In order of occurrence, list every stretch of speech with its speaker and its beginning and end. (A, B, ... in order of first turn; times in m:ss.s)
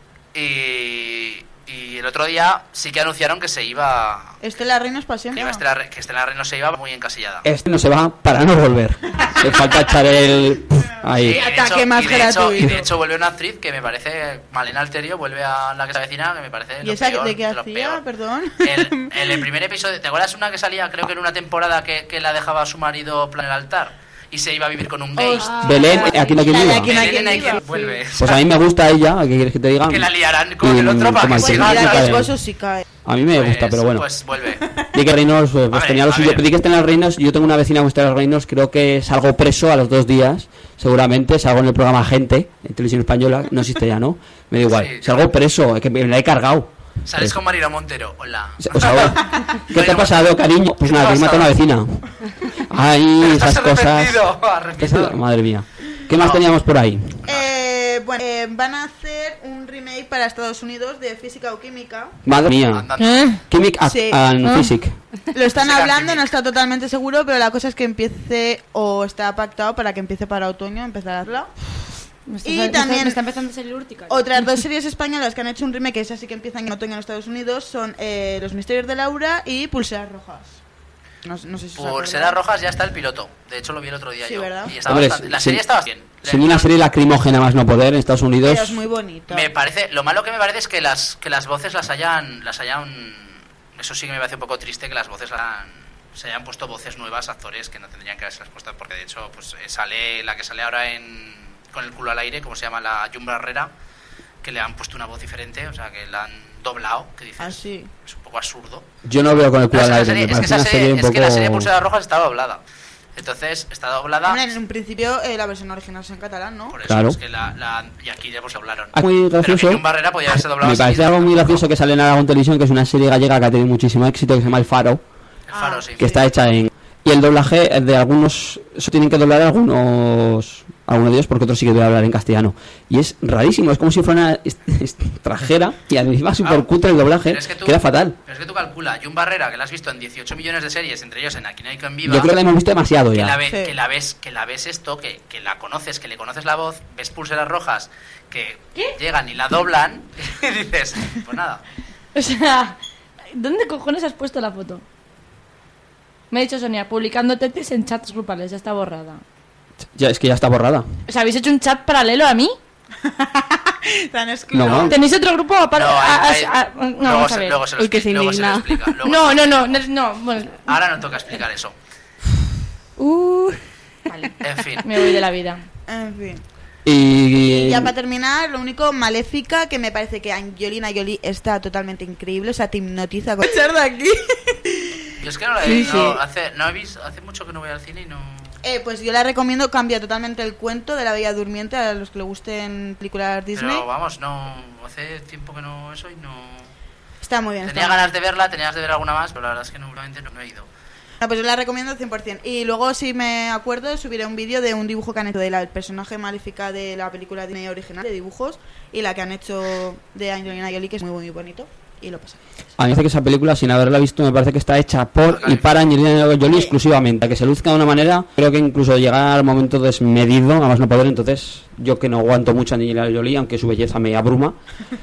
0:00.3-0:04.4 A
0:04.4-0:05.6 B
0:05.4-0:07.4 A
0:07.4-0:11.4 C
0:11.2-0:12.9 B
0:11.2-0:18.0 A
0:16.8-0:19.4 B
0:18.6-0:28.4 A
0:25.2-0:27.9 B
0:25.4-0:26.1 D
0:25.6-0:27.1 C
0:28.2-0:32.3 C
0:29.9-0:32.3 A
0:31.4-0:32.8 B
0:33.0-0:34.1 C
0:33.3-0:34.6 A
0:34.9-0:47.4 C
0:35.7-0:36.4 A
0:44.7-0:45.2 A
0:47.0-0:51.5 A
0:48.6-0:54.2 C
0:53.2-0:55.2 A
0:54.8-0:57.2 C
0:56.2-0:56.5 A
0:57.3-1:02.1 B
1:02.2-1:02.9 C
1:02.7-1:03.3 A
1:03.0-1:03.4 E
1:03.4-1:05.0 C
1:03.8-1:04.2 B
1:04.4-1:04.7 E
1:05.3-1:11.5 B
1:05.5-1:06.3 A
1:12.3-1:14.2 E
1:12.4-1:13.2 B
1:14.1-1:20.6 B
1:21.2-1:22.4 B
1:21.8-1:26.7 A
1:24.2-1:24.7 B
1:24.8-1:25.6 C
1:26.2-1:28.8 C
1:28.4-1:29.5 B
1:29.3-1:43.7 A
1:44.4-1:48.8 A
1:47.4-1:47.9 B
1:49.0-1:51.7 C
1:49.7-1:52.6 A
1:53.2-1:54.4 A
1:54.2-1:56.8 B
1:56.7-2:01.6 A
1:56.8-1:57.2 C
1:58.9-2:05.0 C
2:05.5-2:06.2 A
2:05.5-2:05.9 B
2:06.0-2:18.1 C
2:16.4-2:22.3 A
2:22.0-2:23.4 C
2:23.1-2:31.6 A
2:23.5-2:23.7 B
2:32.1-2:32.8 E
2:33.3-2:34.8 E
2:36.3-2:39.2 E
2:39.9-2:40.9 C
2:41.1-2:42.6 E
2:43.0-2:45.0 B
2:44.5-2:45.0 C
2:44.6-2:47.6 E
2:45.7-2:49.8 A
2:47.8-2:48.8 D
2:49.0-2:50.7 E
2:50.6-2:51.7 A
2:53.0-2:53.4 D
2:54.1-2:55.6 E
2:54.4-2:54.8 A
2:55.9-2:56.4 B
2:56.8-2:57.9 C
2:57.4-3:05.0 B
3:05.2-3:08.5 A
3:05.6-3:06.2 D
3:05.6-3:06.0 B
3:08.6-3:13.8 B
3:13.5-3:16.7 A
3:17.2-3:18.0 B
3:17.6-3:20.7 A
3:21.2-3:32.4 B
3:32.8-3:44.6 C
3:35.3-3:35.8 A